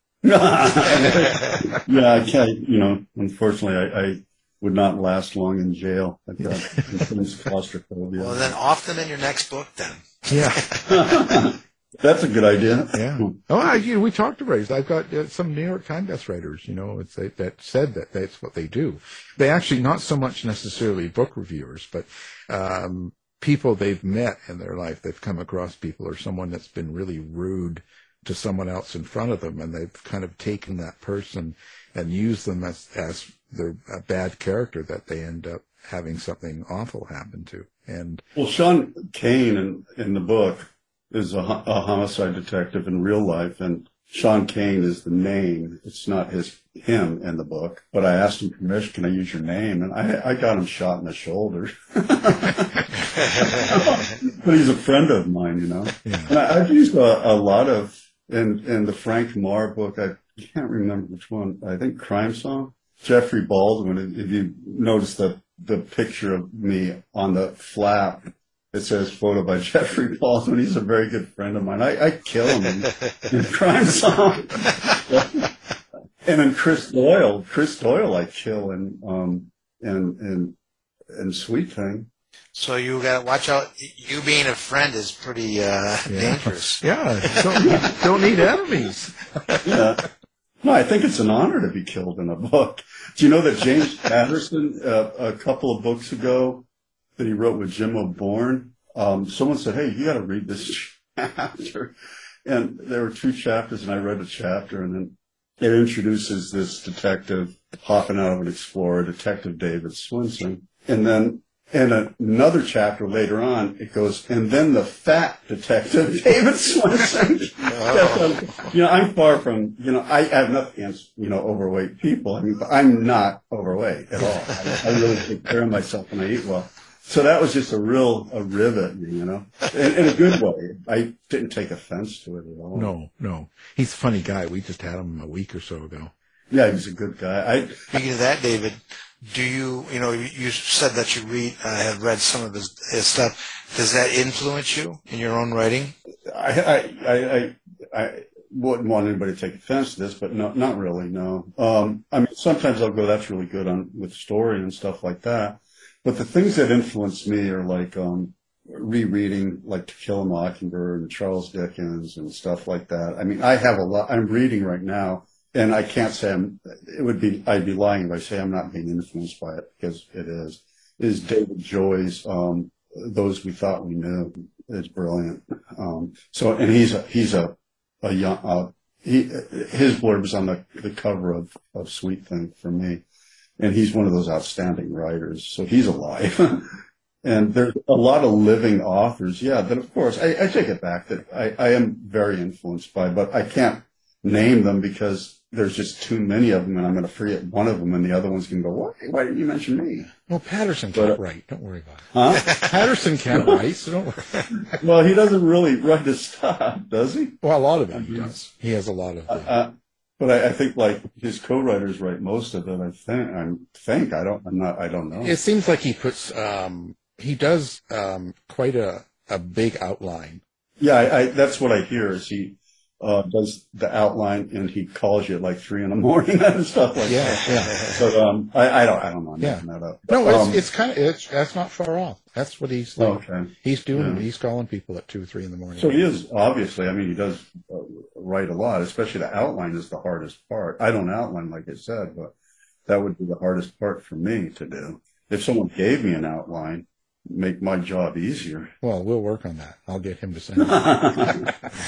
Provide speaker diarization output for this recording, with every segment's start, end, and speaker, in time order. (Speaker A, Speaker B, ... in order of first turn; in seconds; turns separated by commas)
Speaker A: 0.2-8.6, Speaker B: 6.4-6.9, Speaker C: 8.2-11.5, Speaker B: 10.3-10.6, Speaker A: 10.9-13.3, Speaker B: 12.9-38.2, Speaker A: 38.4-75.5, Speaker C: 53.2-53.7, Speaker B: 56.0-56.4, Speaker A: 76.2-80.6, Speaker A: 81.1-82.1, Speaker C: 82.5-87.8, Speaker B: 86.1-89.1, Speaker A: 87.6-88.2, Speaker A: 89.7-90.0, Speaker A: 90.6-101.9, Speaker A: 102.5-132.9, Speaker C: 117.7-118.7, Speaker B: 132.7-136.1, Speaker A: 136.5-137.9, Speaker C: 137.9-145.9, Speaker A: 146.3-183.0, Speaker A: 183.6-200.1, Speaker B: 200.3-204.6, Speaker A: 200.9-201.2, Speaker A: 202.1-202.6, Speaker A: 203.3-203.6, Speaker A: 204.7-207.4, Speaker B: 207.4-209.5, Speaker A: 207.9-208.3, Speaker A: 209.3-215.4, Speaker B: 215.2-220.4, Speaker A: 220.8-230.6, Speaker B: 227.1-227.9, Speaker C: 227.5-228.0, Speaker B: 229.4-236.0, Speaker A: 233.0-234.2, Speaker A: 235.8-242.3, Speaker A: 242.9-248.8, Speaker B: 248.8-251.7, Speaker A: 250.6-251.5